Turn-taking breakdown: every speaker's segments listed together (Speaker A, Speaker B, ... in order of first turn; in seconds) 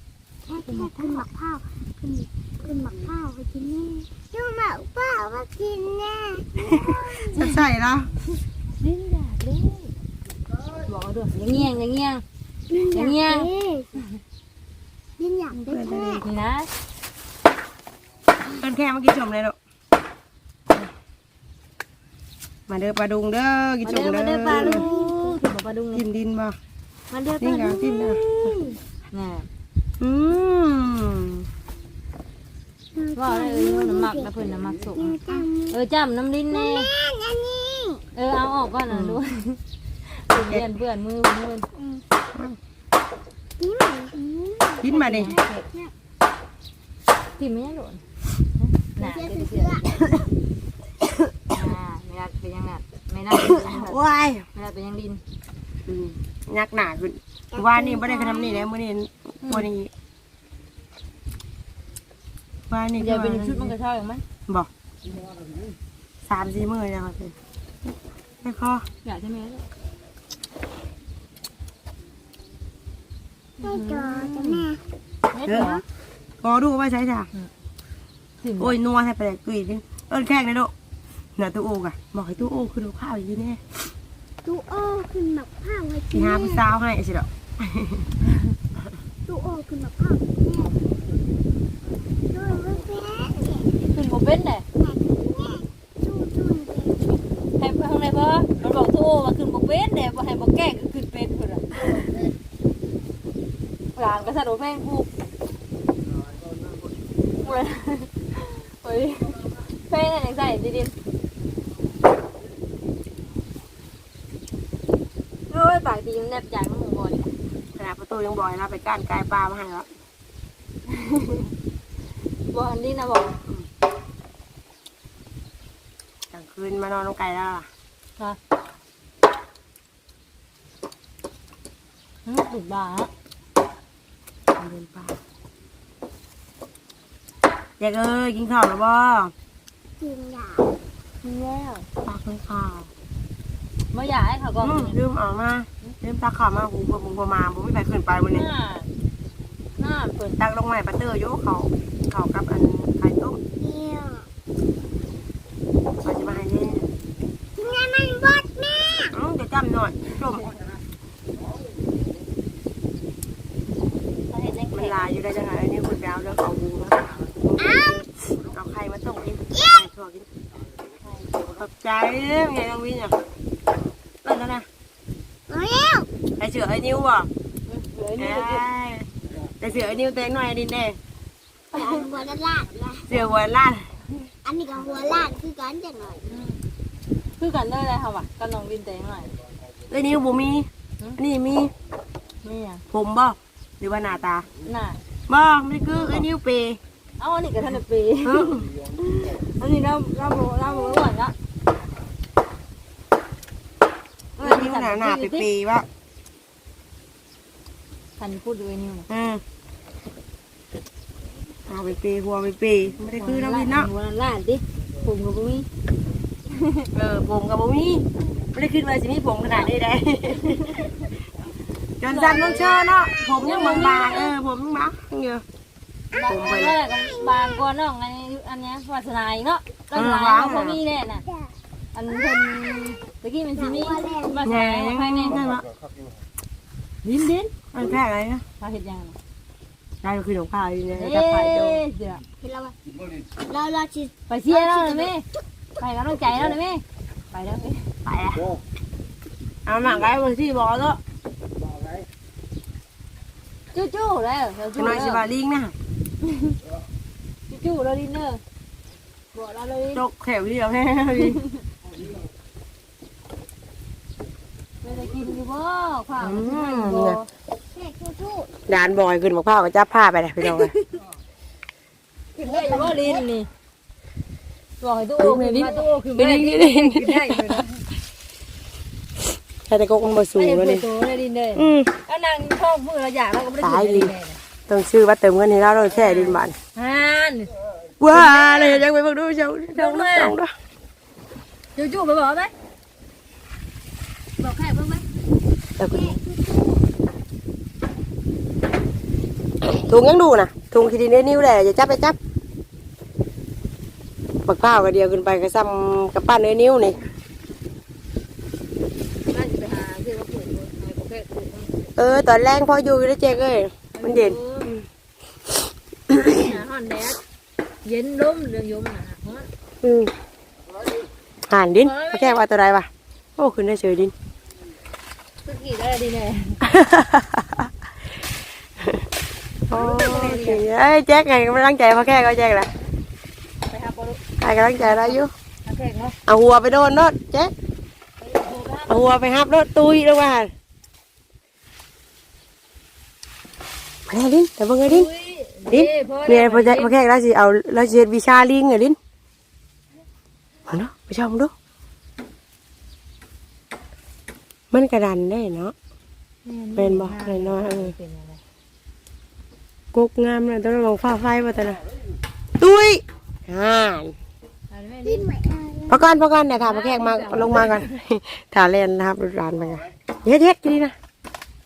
Speaker A: 0.5-7.4, 11.4-11.7, 12.7-14.0, 15.2-16.3, 24.5-25.4, 27.6-28.8, 33.0-35.8, 36.5-38.0, 41.8-42.0, 43.6-45.9, 49.0-50.3, 57.5-58.7, 73.6-74.8, 75.5-75.8, 84.5-86.7, 89.3-90.8, 92.3-93.7, 94.8-97.2, 140.0-140.7, 153.6-154.3, 156.1-156.4, 157.6-159.2, 167.6-168.0, 169.5-169.9, 175.5-176.1, 181.7-183.1, 184.4-186.2, 223.6-224.1, 226.8-227.6, 232.1-233.0, 233.6-234.4, 242.4-242.8, 243.5-245.1, 267.7-268.5, 272.4-273.3, 295.9-296.8, 365.1-366.1
Speaker B: 0.7-1.2, 7.3-7.6, 8.8-9.9, 10.9-12.2, 12.9-13.5, 16.2-16.7, 23.8-26.0, 27.1-27.8, 29.1-29.5, 33.1-36.9, 38.1-39.6, 40.1-41.7, 44.8-45.6, 47.4-48.0, 48.6-49.9, 51.5-54.0, 54.5-55.2, 63.0-64.2, 69.0-69.6, 73.6-74.7, 75.3-75.8, 78.4-78.8, 93.8-94.7, 97.6-101.7, 104.0-105.1, 107.4-110.9, 115.5-117.3, 120.9-121.5, 122.5-123.4, 132.3-133.1, 141.2-141.9, 143.9-145.0, 148.3-148.9, 149.8-150.4, 164.3-165.2, 171.0-171.3, 177.7-178.7, 181.8-182.1, 186.3-186.6, 187.4-189.3, 192.4-192.8, 194.7-195.0, 195.9-196.2, 197.2-201.3, 204.4-205.5, 208.2-209.1, 213.2-215.7, 216.5-216.9, 220.5-220.7, 222.0-224.3, 226.1-231.2, 231.9-235.4, 237.0-237.5, 238.6-239.2, 240.9-242.2, 244.3-245.2, 245.8-247.9, 253.7-255.2, 256.2-256.6, 257.5-258.4, 259.3-260.0, 264.8-267.3, 270.4-270.9, 272.4-273.5, 274.8-277.7, 280.4-284.4, 285.9-287.5, 288.1-288.9, 289.8-290.4, 291.8-292.5, 294.4-295.1, 309.3-311.9, 313.9-314.7, 316.2-317.2, 317.8-319.5, 321.8-322.4, 325.4-326.6, 329.7-330.6, 333.7-334.2, 334.8-336.1, 338.2-339.1, 344.9-346.9, 356.4-358.4, 364.7-365.3, 366.6-367.9
Speaker C: 6.7-8.1, 15.5-16.2, 18.5-19.6, 22.7-24.9, 25.9-26.6, 27.4-28.2, 30.0-31.4, 38.9-39.2, 40.3-40.7, 44.8-45.3, 53.3-54.4, 55.9-59.9, 62.7-63.7, 66.3-67.3, 68.4-68.8, 75.5-75.8, 76.4-77.3, 78.6-80.7, 81.4-83.6, 86.1-88.0, 117.8-119.9, 126.3-127.7, 134.6-135.2, 137.8-139.3, 142.0-142.9, 144.6-148.5, 150.4-153.4, 156.0-156.8, 159.1-160.5, 164.7-170.3, 171.4-173.1, 174.2-174.7, 176.4-177.3, 178.2-179.1, 179.6-181.0, 183.1-183.8, 189.9-190.7, 191.2-191.7, 192.9-194.5, 195.3-196.8, 198.2-198.7, 204.4-205.9, 209.1-209.4, 211.7-213.9, 216.9-220.9, 222.0-225.4, 226.3-226.8, 229.9-230.8, 234.4-235.7, 237.7-238.4, 240.0-241.8, 248.1-248.5, 249.7-251.0, 254.8-255.7, 259.9-261.4, 266.2-267.2, 268.7-270.7, 275.2-277.6, 279.7-280.9, 281.6-281.9, 283.6-284.1, 284.7-286.5, 288.0-290.5, 295.8-296.2, 299.6-302.2, 304.5-307.0, 312.0-314.8, 316.1-316.4, 319.8-320.1, 321.5-324.1, 326.6-327.7, 329.7-332.7, 334.4-335.3, 336.3-337.5, 338.9-340.5, 344.1-345.1, 345.7-349.0, 350.7-351.5, 354.7-355.7, 356.8-357.9, 359.9-361.8, 362.6-364.1, 365.9-370.9